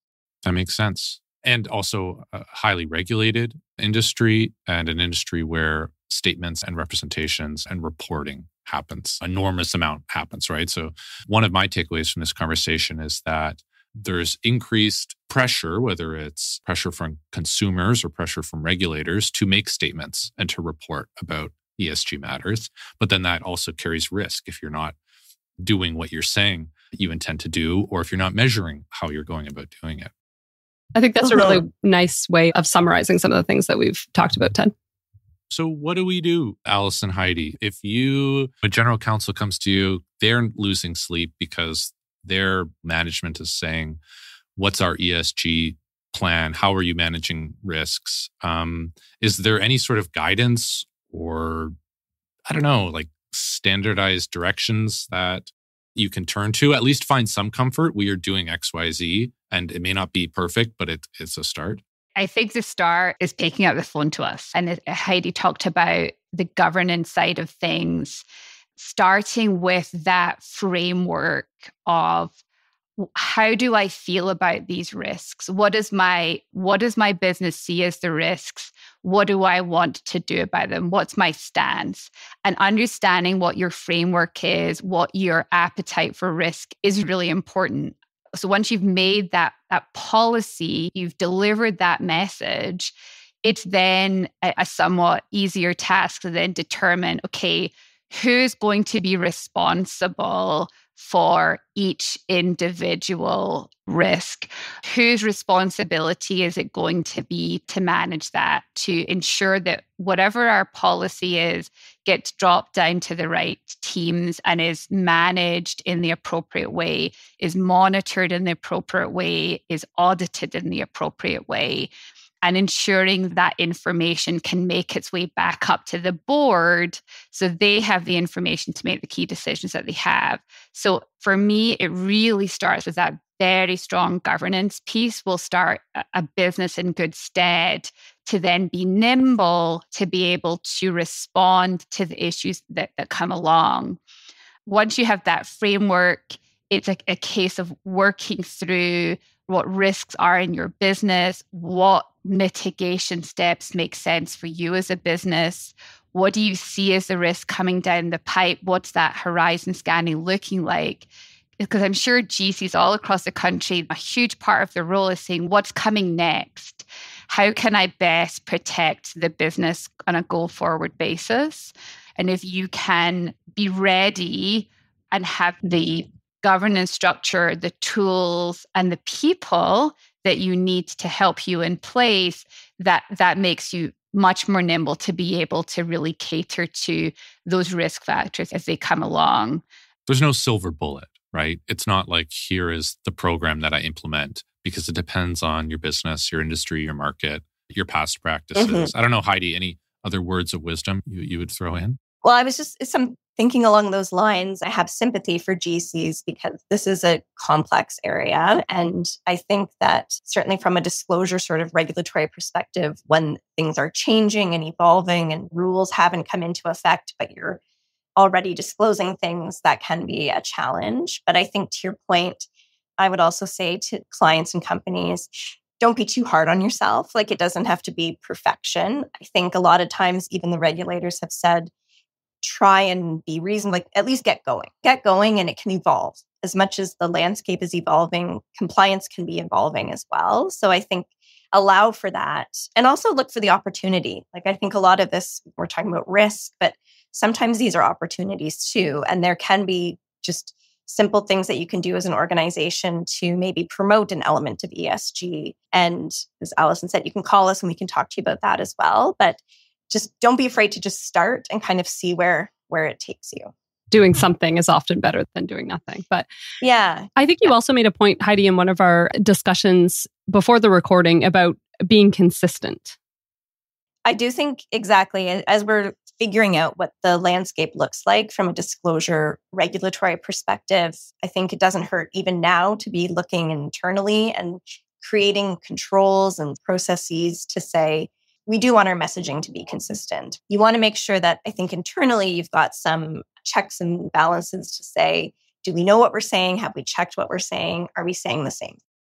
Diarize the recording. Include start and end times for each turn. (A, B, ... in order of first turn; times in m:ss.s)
0:00.4-0:25.0 A
0:25.6-0:30.1 A
0:30.9-0:34.7 B
0:31.2-0:31.6 C
0:35.5-0:44.0 A
0:44.6-0:51.7 A
0:52.5-1:01.8 A
1:02.2-1:08.2 D
1:08.8-1:12.3 D
1:13.0-2:01.9 D
2:02.4-2:24.0 D
2:24.6-2:41.1 D
2:41.6-3:09.6 D
3:10.1-3:22.0 A
3:18.6-3:18.9 C
3:22.2-3:37.6 C
3:38.2-3:42.5 C
3:43.0-3:51.7 C
3:52.4-4:19.4 C
4:19.9-4:23.5 C
4:23.9-4:26.2 B
4:26.6-4:27.1 C
4:27.2-4:33.0 B
4:34.0-4:58.8 C